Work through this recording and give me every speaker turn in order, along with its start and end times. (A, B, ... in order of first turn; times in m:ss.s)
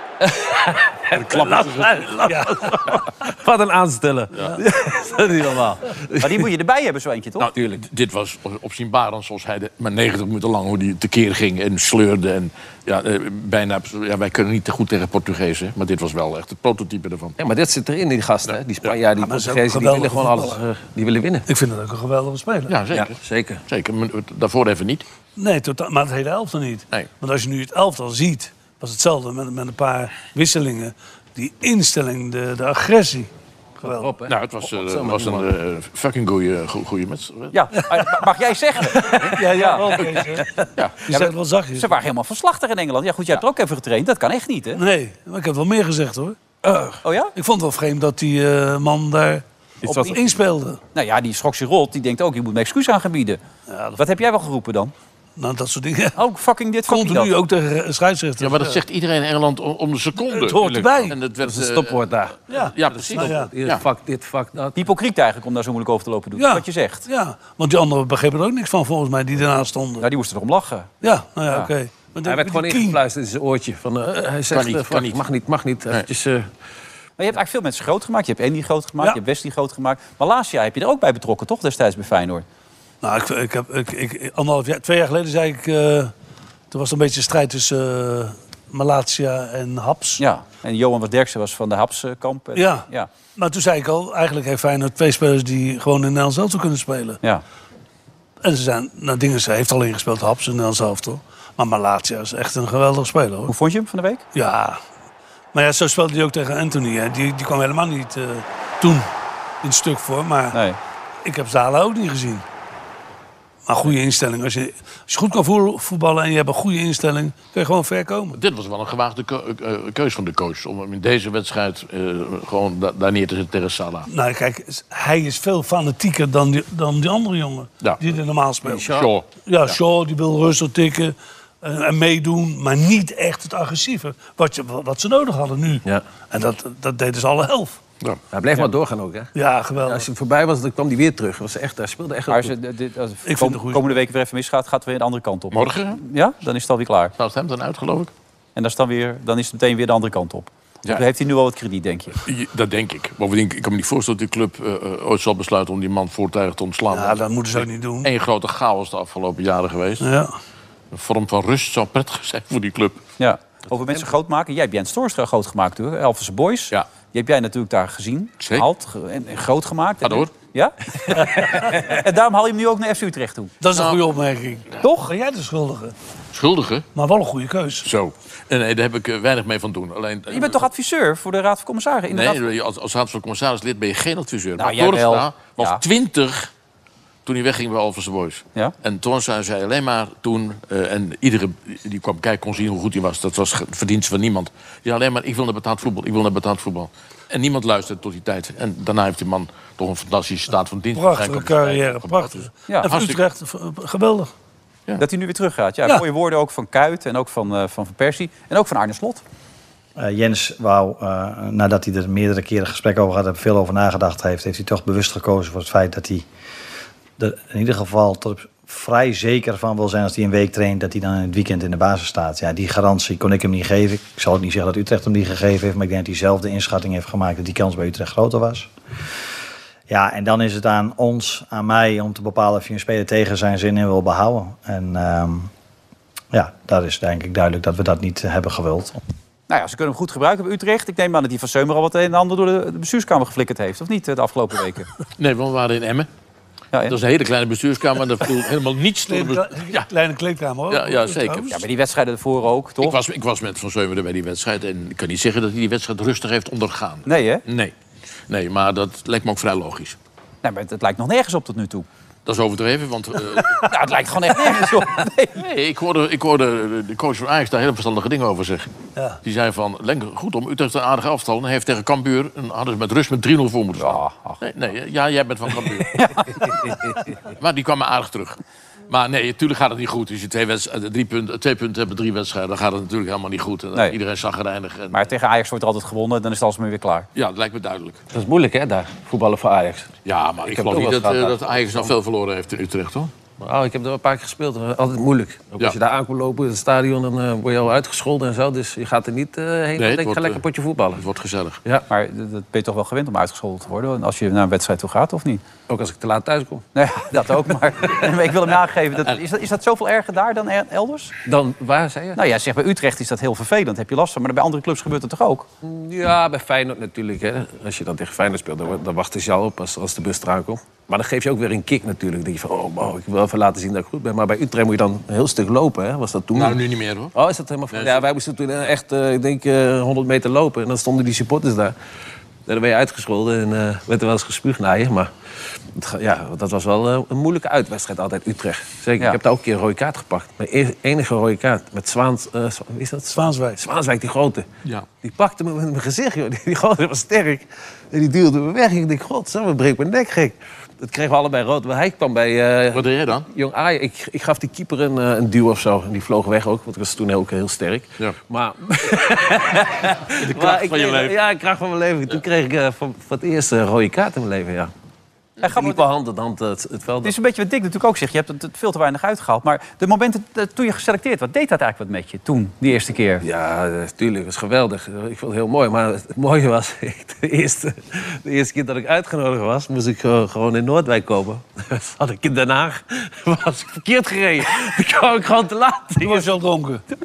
0:00.2-0:06.5 A
0:01.1-0:02.2 B
0:01.3-0:03.0 C
0:06.2-0:07.5 D
0:07.4-0:17.3 B
0:17.4-0:21.4 A
0:19.2-0:20.6 C
0:21.5-0:22.7 C
0:22.7-0:25.0 B
0:22.9-0:23.6 A
0:25.4-0:33.3 C
0:33.8-0:34.1 C
0:33.8-0:35.5 A
0:34.3-0:37.5 B
0:37.5-0:40.1 D
0:39.2-0:41.9 C
0:41.1-0:44.8 D
0:44.8-0:50.8 C
0:47.0-0:47.3 D
0:49.8-0:50.3 D
0:50.9-0:53.4 D
0:53.7-0:54.0 C
0:54.0-0:54.9 D
0:55.4-0:56.2 C
0:56.1-0:57.3 D
0:56.9-0:58.8 C
0:58.4-1:02.0 B
1:00.3-1:01.1 C
1:01.4-1:04.8 A
1:02.5-1:03.5 C
1:02.5-1:03.8 B
1:04.8-1:07.0 D
1:06.4-1:10.1 C
1:10.0-1:10.9 D
1:11.0-1:13.0 C
1:12.2-1:16.5 A
1:14.5-1:15.2 B
1:17.2-1:22.4 D
1:23.0-1:26.1 C
1:26.7-1:30.2 C
1:30.2-1:33.1 D
1:32.5-1:37.2 C
1:38.4-1:43.5 C
1:43.5-1:44.2 D
1:44.3-1:44.8 C
1:45.5-1:49.1 C
1:49.6-1:50.6 C
1:50.5-1:50.8 D
1:51.2-1:52.4 C
1:53.7-1:58.4 C
1:58.3-2:04.1 B
2:04.1-2:08.9 C
2:08.6-2:09.1 A
2:08.9-2:09.7 B
2:09.4-2:17.8 C
2:18.3-2:19.3 A
2:19.3-2:20.1 C
2:19.8-2:22.5 A
2:22.3-2:27.1 D
2:23.2-2:24.0 C
2:25.5-2:26.0 B
2:27.2-2:28.1 B
2:28.6-2:32.2 D
2:32.2-2:40.1 B
2:36.9-2:38.1 C
2:40.0-2:40.3 C
2:40.9-2:43.0 B
2:43.2-2:53.6 D
2:48.4-2:48.7 B
2:50.0-2:50.3 B
2:53.6-2:55.9 C
2:54.8-2:55.1 D
2:56.3-2:56.8 B
2:56.9-2:57.8 C
2:57.8-3:00.6 B
3:00.3-3:02.4 D
3:02.1-3:06.5 B
3:04.6-3:05.8 D
3:07.2-3:23.2 B
3:20.9-3:24.3 C
3:25.0-3:29.2 D
3:30.0-3:36.2 E
3:37.2-3:48.7 E
3:49.9-3:55.5 E
3:56.3-3:59.0 E
3:59.5-4:04.9 D
4:05.2-4:06.1 B
4:06.8-4:09.9 B
4:09.1-4:11.6 C
4:10.7-4:11.5 B
4:11.5-4:13.0 D
4:12.8-4:17.7 B
4:17.0-4:17.4 D
4:18.3-4:20.0 B
4:20.4-4:21.9 D
4:22.2-4:23.7 B
4:23.6-4:25.4 D
4:25.4-4:28.7 B
4:29.2-4:36.1 B
4:33.8-4:34.4 D
4:36.0-4:36.4 D
4:37.4-4:38.4 B
4:38.9-4:45.0 B
4:44.9-4:47.1 D
4:47.1-4:48.0 B
4:48.1-4:51.9 A
4:50.0-4:53.1 B
4:53.4-5:01.0 A
4:59.8-5:00.4 B
5:00.9-5:01.6 B
5:01.9-5:05.4 D
5:05.7-5:06.6 A
5:06.7-5:11.1 D
5:11.2-5:12.2 A
5:12.1-5:15.5 D
5:15.6-5:26.6 A
5:26.3-5:27.1 B
5:27.1-5:31.7 A
5:27.7-5:28.0 B
5:32.5-5:35.1 A
5:35.7-5:44.5 A
5:43.1-5:43.6 C
5:45.0-6:04.7 A
5:52.7-5:53.3 B
6:00.2-6:01.2 B
6:05.4-6:05.8 D
6:05.4-6:07.1 A
6:07.0-6:13.2 D
6:13.2-6:26.3 A
6:26.0-6:26.8 C